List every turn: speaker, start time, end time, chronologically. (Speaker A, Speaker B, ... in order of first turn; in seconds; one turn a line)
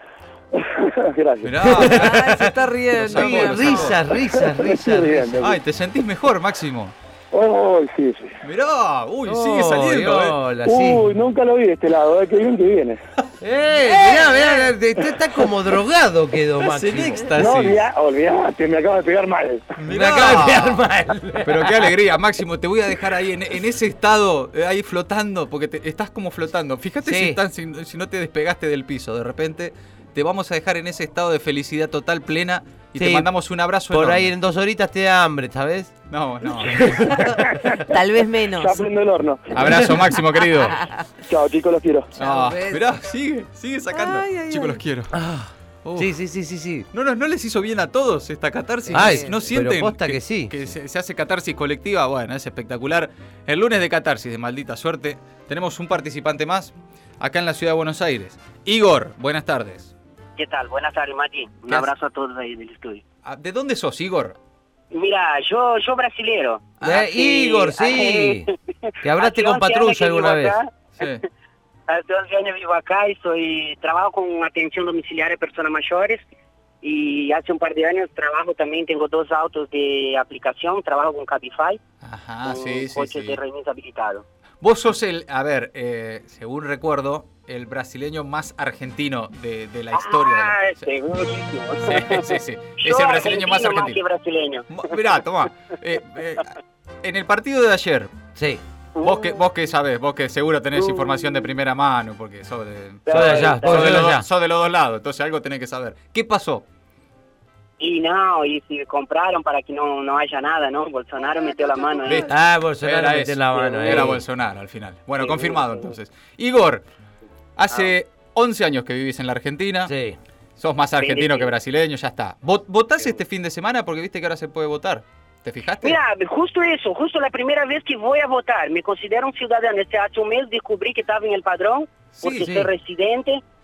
Speaker A: 0.6-1.9
Speaker B: 1.4-2.3
Speaker C: 1.6-5.5
Speaker D: 1.9-4.0
Speaker B: 3.0-4.0
Speaker A: 4.2-5.6
Speaker B: 5.4-6.9
Speaker A: 7.3-8.3
Speaker B: 8.4-10.4
Speaker C: 9.3-11.1
Speaker A: 10.6-13.0
Speaker C: 13.4-17.3
Speaker B: 13.8-14.7
Speaker B: 16.6-17.8
Speaker A: 17.4-19.7
Speaker B: 19.8-20.9
Speaker C: 19.9-21.9
Speaker B: 21.4-34.3
Speaker C: 27.0-27.4
Speaker C: 33.0-36.0
Speaker B: 36.1-37.1
Speaker C: 36.6-37.6
Speaker D: 37.0-38.8
Speaker A: 38.6-39.9
Speaker B: 39.5-40.8
Speaker A: 41.2-42.1
Speaker D: 42.2-42.9
Speaker B: 42.2-45.1
Speaker D: 43.9-44.8
Speaker C: 45.1-46.9
Speaker B: 45.8-46.1
Speaker B: 46.9-59.9
Speaker C: 48.9-50.5
Speaker D: 48.9-49.4
Speaker E: 60.4-63.0
Speaker B: 63.2-64.4
Speaker E: 64.9-68.5
Speaker B: 66.8-67.1
Speaker C: 66.8-68.5
Speaker C: 69.0-70.6
Speaker E: 69.2-71.1
Speaker B: 71.0-71.2
Speaker E: 71.9-76.2
Speaker E: 76.8-81.8
Speaker B: 82.0-83.4
Speaker E: 82.5-84.2
Speaker B: 84.6-90.9
Speaker E: 89.9-94.8
Speaker B: 91.8-94.0
Speaker B: 94.7-98.1
Speaker C: 98.3-98.6
Speaker E: 99.0-99.4
Speaker B: 99.0-106.7
Speaker E: 100.8-101.5
Speaker E: 103.1-104.1
Speaker C: 103.1-104.3
Speaker E: 107.8-112.4
Speaker B: 112.0-112.3
Speaker C: 112.3-114.3
Speaker B: 112.8-116.8
Speaker E: 113.5-114.2
Speaker E: 115.2-115.9
Speaker B: 117.6-119.9
Speaker C: 119.9-120.2
Speaker B: 120.6-126.0
Speaker E: 121.0-121.5
Speaker E: 125.8-133.4
Speaker B: 132.1-132.5
Speaker C: 132.3-132.7